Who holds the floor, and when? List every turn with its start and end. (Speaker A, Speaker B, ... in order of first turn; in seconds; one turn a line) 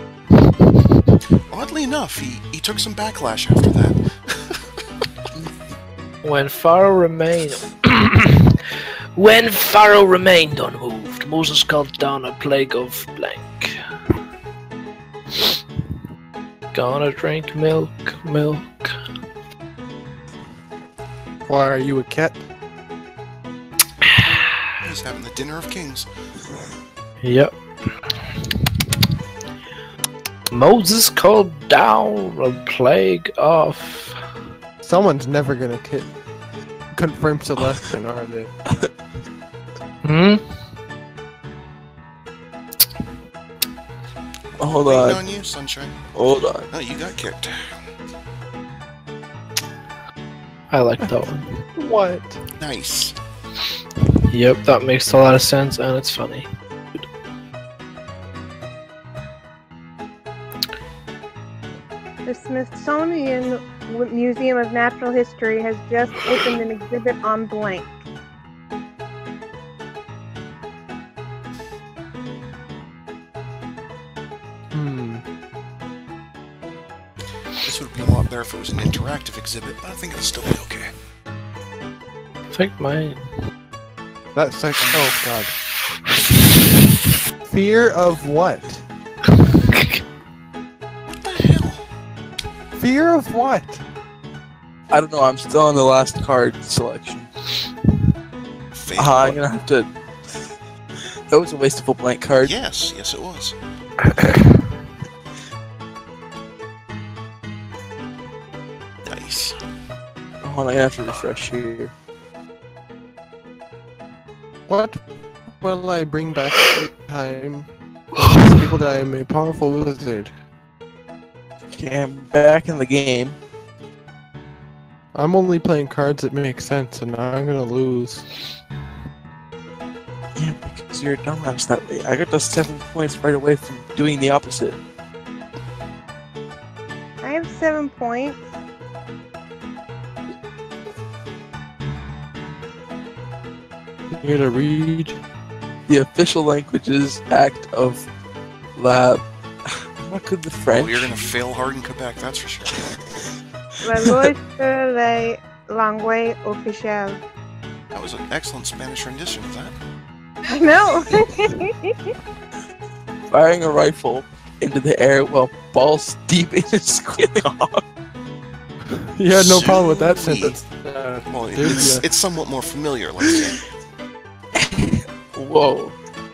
Speaker A: 1.5-4.7
Speaker B: 6.2-13.8
Speaker B: 16.7-19.0
Speaker C: 21.4-22.4
Speaker B: 24.0-24.6
Speaker A: 24.8-26.1
Speaker B: 27.2-28.9
Speaker B: 30.5-34.2
Speaker C: 34.8-36.1
Speaker C: 36.9-38.5
Speaker B: 40.0-40.4
Speaker D: 44.6-45.2
Speaker A: 44.8-46.1
Speaker D: 46.1-46.7
Speaker A: 46.7-47.7
Speaker B: 50.7-51.6
Speaker C: 51.0-52.4
Speaker A: 52.6-53.1
Speaker B: 54.3-56.5
Speaker E: 62.2-67.9
Speaker C: 74.7-75.2
Speaker A: 77.6-80.9
Speaker B: 82.5-83.3
Speaker C: 84.3-85.5
Speaker C: 87.4-88.8
Speaker B: 89.4-90.0
Speaker A: 91.1-91.8
Speaker C: 92.7-93.8
Speaker D: 94.9-97.3
Speaker A: 98.7-99.4
Speaker D: 99.0-100.4
Speaker D: 101.3-102.5
Speaker A: 102.4-103.5
Speaker A: 109.0-109.6
Speaker D: 110.4-111.9
Speaker C: 114.7-120.3
Speaker D: 121.7-123.4
Speaker C: 125.1-128.3
Speaker D: 130.4-134.8
Speaker E: 137.2-138.4
Speaker C: 144.1-145.2
Speaker D: 145.9-148.1
Speaker D: 148.8-151.2
Speaker A: 150.7-152.8
Speaker E: 153.8-157.2
Speaker A: 157.9-159.7
Speaker E: 160.5-162.1
Speaker D: 163.3-167.8
Speaker C: 169.0-172.0
Speaker A: 169.3-170.6
Speaker A: 171.3-173.6
Speaker D: 174.6-175.9